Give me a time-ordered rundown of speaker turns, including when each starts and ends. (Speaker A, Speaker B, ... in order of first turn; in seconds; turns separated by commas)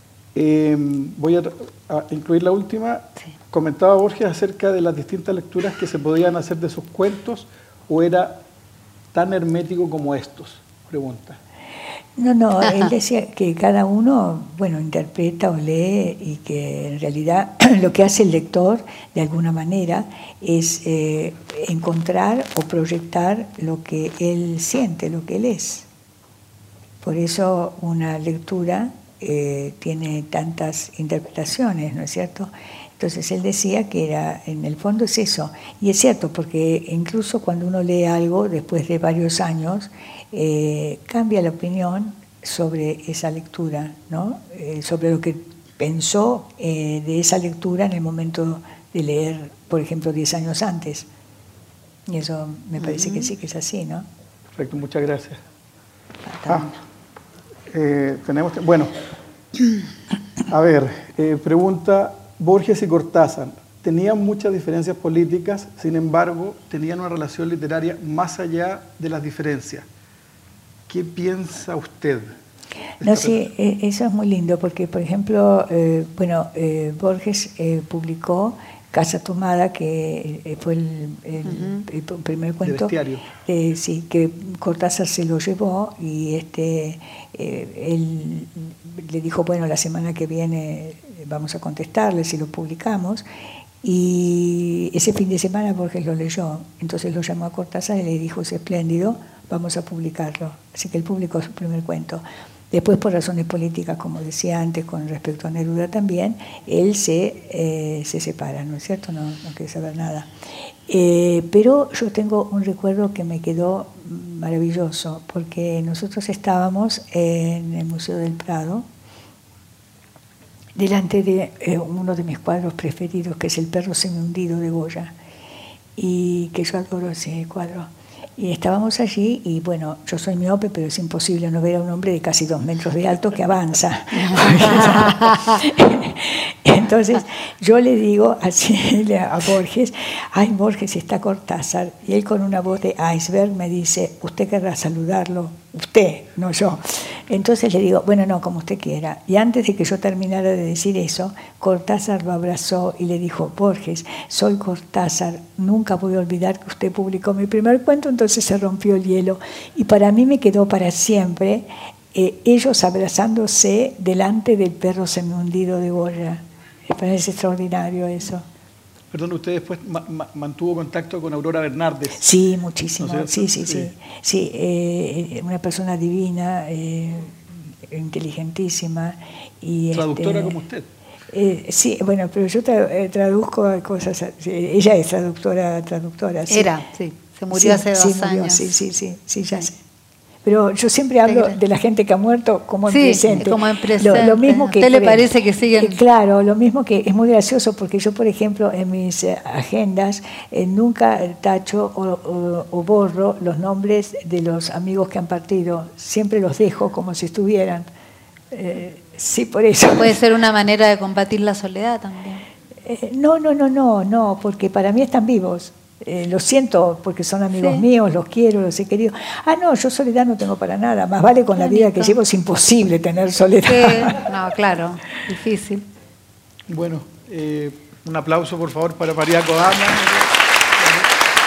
Speaker A: 0.3-8.4, Speaker A: 9.1-11.4, Speaker B: 12.2-25.9, Speaker B: 27.0-51.1, Speaker B: 52.1-54.1, Speaker C: 52.8-53.3, Speaker A: 54.5-55.4, Speaker C: 56.3-56.8, Speaker A: 57.7-58.9, Speaker A: 60.4-69.8, Speaker A: 70.9-72.3, Speaker A: 73.0-73.4, Speaker B: 73.0-82.9, Speaker C: 81.5-81.9, Speaker A: 82.6-83.3, Speaker B: 83.4-93.2, Speaker B: 93.8-110.3, Speaker B: 110.9-118.8, Speaker B: 120.8-125.1, Speaker B: 126.0-168.5, Speaker C: 134.3-135.5, Speaker A: 169.1-172.2, Speaker B: 172.2-180.6, Speaker A: 173.0-173.9, Speaker A: 179.9-180.9, Speaker B: 181.3-186.7, Speaker C: 186.5-188.8, Speaker B: 187.5-189.8, Speaker B: 190.4-207.9, Speaker C: 191.2-191.6, Speaker C: 192.9-196.0, Speaker B: 208.5-210.2, Speaker C: 210.0-212.5, Speaker B: 212.8-224.2, Speaker C: 217.6-217.8, Speaker C: 221.6-222.2, Speaker C: 223.7-225.9, Speaker A: 226.7-231.1